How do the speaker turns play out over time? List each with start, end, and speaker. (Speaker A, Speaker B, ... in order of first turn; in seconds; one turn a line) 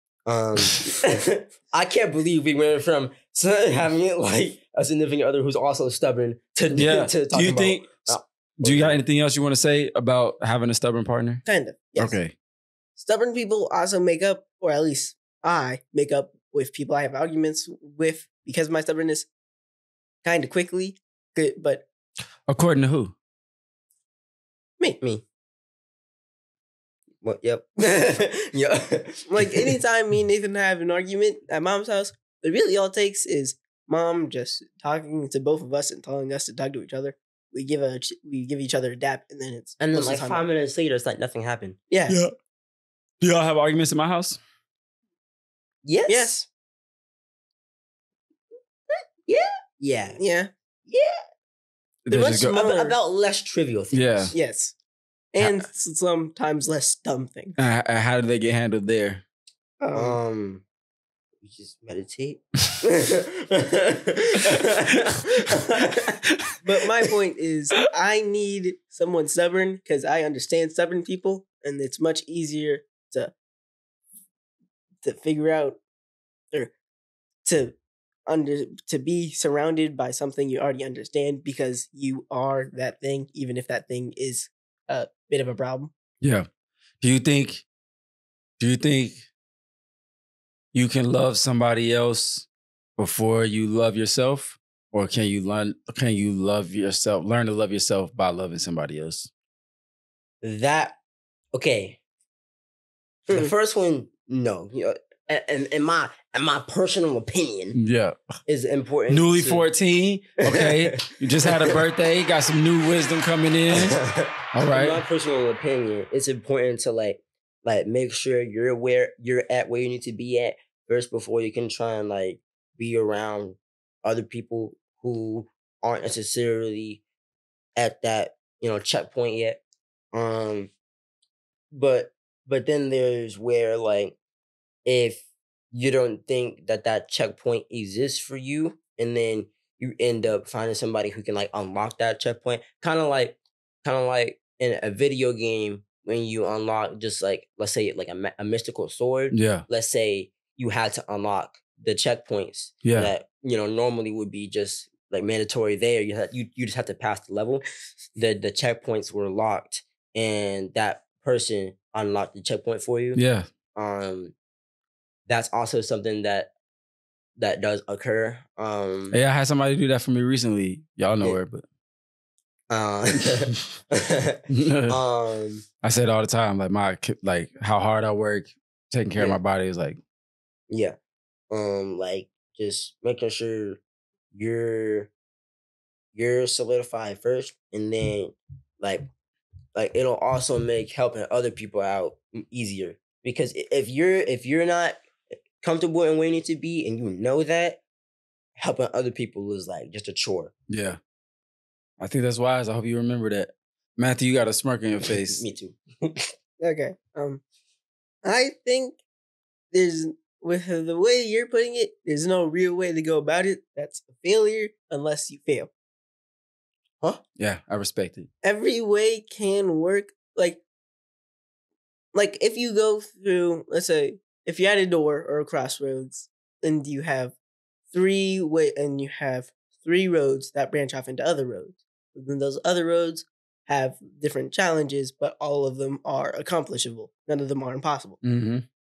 Speaker A: 0.2-9.0
Speaker B: 6.7-11.4
Speaker C: 11.4-12.2
Speaker B: 12.0-12.3
Speaker C: 13.0-19.3
Speaker C: 20.2-21.8
Speaker B: 22.5-23.1
Speaker A: 27.2-29.7
Speaker C: 29.2-40.4
Speaker A: 39.8-41.8
Speaker C: 41.9-42.2
Speaker B: 43.2-44.4
Speaker A: 45.8-46.4
Speaker C: 46.1-46.4
Speaker A: 49.3-50.2
Speaker C: 50.2-50.5
Speaker A: 50.9-51.2
Speaker B: 52.0-52.6
Speaker C: 52.1-53.0
Speaker A: 52.6-54.3
Speaker B: 53.9-54.3
Speaker C: 54.3-54.7
Speaker C: 55.3-57.5
Speaker B: 57.6-59.2
Speaker C: 59.8-60.2
Speaker A: 59.9-60.6
Speaker A: 61.4-66.2
Speaker C: 66.6-73.3
Speaker C: 75.0-75.8
Speaker C: 77.4-77.7
Speaker C: 78.3-85.9
Speaker B: 86.2-86.5
Speaker B: 87.0-87.6
Speaker B: 88.6-89.3
Speaker B: 90.7-92.5
Speaker B: 93.0-99.3
Speaker A: 100.4-101.0
Speaker A: 101.5-102.0
Speaker A: 103.3-107.8
Speaker B: 107.7-108.2
Speaker A: 108.5-109.6
Speaker B: 109.1-114.0
Speaker A: 110.4-111.8
Speaker A: 113.7-127.0
Speaker B: 114.5-115.0
Speaker A: 127.8-129.6
Speaker A: 130.1-130.7
Speaker A: 131.7-134.2
Speaker A: 134.8-157.6
Speaker B: 149.3-149.7
Speaker B: 152.8-153.1
Speaker A: 158.2-163.2
Speaker B: 163.2-163.5
Speaker A: 163.7-164.3
Speaker A: 165.3-166.5
Speaker A: 167.4-169.2
Speaker B: 169.1-171.6
Speaker A: 172.7-175.6
Speaker B: 174.5-175.0
Speaker B: 175.8-180.0
Speaker A: 180.7-181.0
Speaker A: 181.5-183.8
Speaker A: 184.3-185.1
Speaker A: 186.1-189.1
Speaker A: 189.7-195.0
Speaker A: 195.6-197.8
Speaker A: 198.6-200.5
Speaker B: 200.7-201.0
Speaker B: 202.0-205.4
Speaker A: 205.1-206.3
Speaker C: 206.6-207.4
Speaker C: 208.2-209.0
Speaker C: 209.7-215.7
Speaker B: 217.4-218.3
Speaker C: 218.4-220.6
Speaker C: 222.1-227.3
Speaker C: 227.9-238.2
Speaker B: 238.2-238.7